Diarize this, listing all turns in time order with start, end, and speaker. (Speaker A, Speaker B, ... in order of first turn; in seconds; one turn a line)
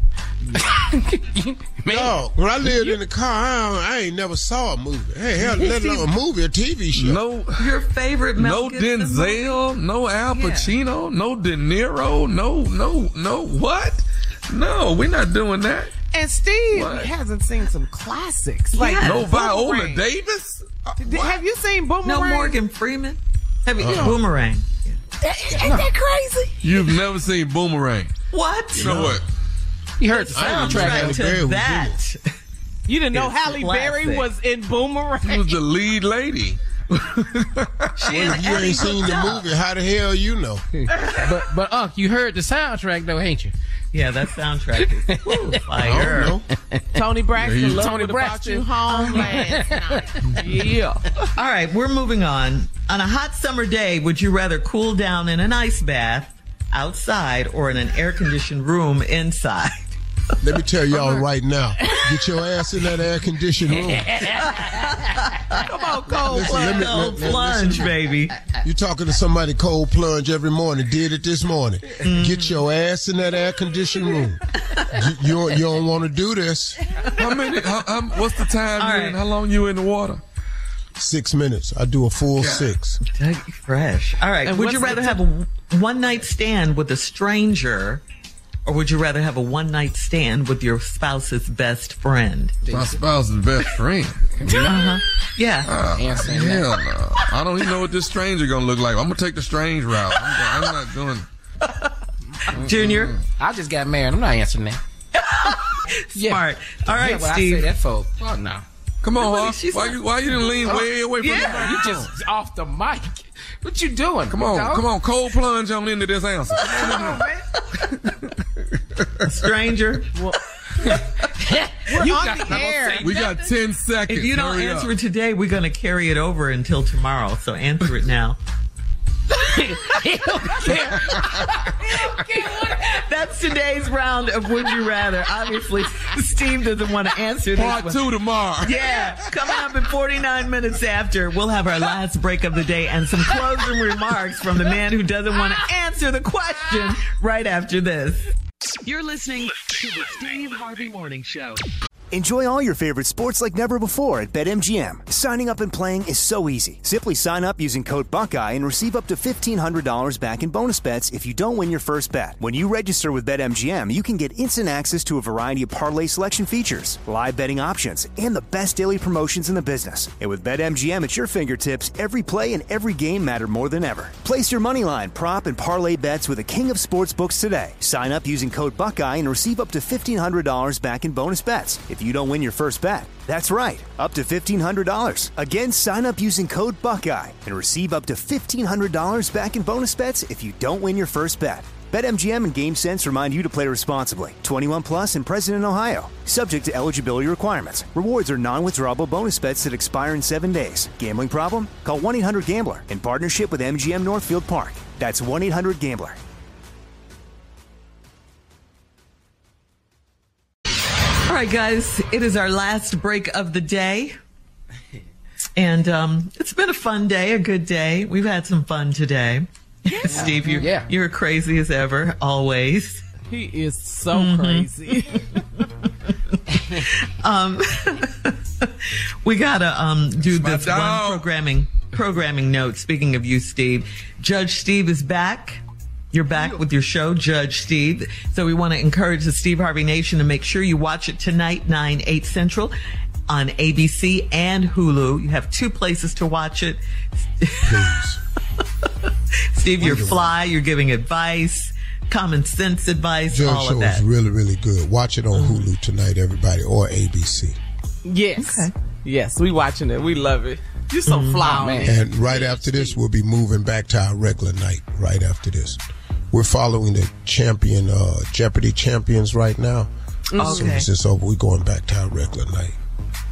Speaker A: 0.5-2.1
Speaker B: 1.9-7.2
Speaker C: 6.9-7.7
Speaker D: 7.6-9.7
Speaker C: 8.3-15.9
Speaker D: 10.3-10.7
Speaker E: 16.1-20.0
Speaker C: 16.7-17.1
Speaker D: 18.7-19.3
Speaker C: 19.0-21.4
Speaker E: 21.0-22.6
Speaker D: 22.0-25.0
Speaker B: 23.8-24.2
Speaker E: 25.2-26.9
Speaker A: 25.6-25.9
Speaker C: 26.6-28.1
Speaker D: 28.3-29.1
Speaker C: 28.7-29.2
Speaker B: 28.8-29.1
Speaker A: 30.0-31.4
Speaker D: 30.1-32.3
Speaker B: 30.3-32.0
Speaker E: 32.9-35.6
Speaker D: 33.1-34.3
Speaker C: 35.2-38.5
Speaker D: 38.0-39.4
Speaker B: 38.1-40.6
Speaker A: 41.2-43.5
Speaker D: 43.9-46.3
Speaker A: 45.0-45.6
Speaker C: 45.4-46.4
Speaker B: 45.9-46.4
Speaker A: 46.5-46.8
Speaker E: 46.9-51.1
Speaker C: 47.4-47.9
Speaker A: 47.7-50.0
Speaker D: 48.9-49.3
Speaker D: 51.3-60.0
Speaker B: 60.4-64.1
Speaker A: 63.8-64.8
Speaker D: 64.3-68.3
Speaker E: 65.6-67.1
Speaker B: 66.3-67.9
Speaker B: 68.6-76.8
Speaker D: 72.0-72.6
Speaker D: 74.5-75.0
Speaker C: 77.2-80.2
Speaker D: 78.8-79.2
Speaker B: 81.0-83.0
Speaker C: 82.3-82.7
Speaker D: 83.0-88.0
Speaker E: 84.4-85.2
Speaker D: 88.7-92.6
Speaker A: 92.7-93.0
Speaker C: 92.7-94.7
Speaker A: 94.4-94.7
Speaker D: 94.6-95.7
Speaker C: 95.6-101.2
Speaker A: 95.9-96.7
Speaker D: 100.3-100.7
Speaker D: 101.6-101.9
Speaker D: 102.5-103.2
Speaker A: 102.5-102.8
Speaker C: 102.7-103.2
Speaker A: 103.3-104.8
Speaker D: 105.1-107.7
Speaker A: 106.1-108.6
Speaker C: 109.0-112.1
Speaker D: 109.1-111.8
Speaker A: 110.6-114.9
Speaker C: 114.3-117.2
Speaker D: 116.6-117.0
Speaker A: 116.6-117.4
Speaker D: 119.3-120.1
Speaker A: 120.8-123.5
Speaker E: 121.9-123.2
Speaker C: 123.0-124.9
Speaker D: 124.1-128.4
Speaker A: 129.3-132.9
Speaker D: 132.8-138.0
Speaker C: 137.5-138.9
Speaker D: 138.6-148.3
Speaker F: 148.8-151.6
Speaker G: 152.1-206.2
Speaker D: 211.2-214.2
Speaker D: 215.6-223.0
Speaker E: 219.9-220.7
Speaker A: 220.1-220.9
Speaker E: 223.3-225.4
Speaker D: 224.1-224.7
Speaker D: 226.8-235.6
Speaker C: 230.2-231.2
Speaker D: 236.1-242.7
Speaker D: 243.3-248.0
Speaker B: 247.7-248.2
Speaker D: 249.5-254.0
Speaker B: 249.8-250.3
Speaker B: 253.3-257.6
Speaker D: 255.3-255.6
Speaker E: 258.0-263.0
Speaker D: 258.4-258.7
Speaker D: 261.1-261.6
Speaker A: 261.4-262.0
Speaker B: 261.8-265.8
Speaker B: 266.3-272.8
Speaker E: 270.3-270.7
Speaker D: 270.4-270.9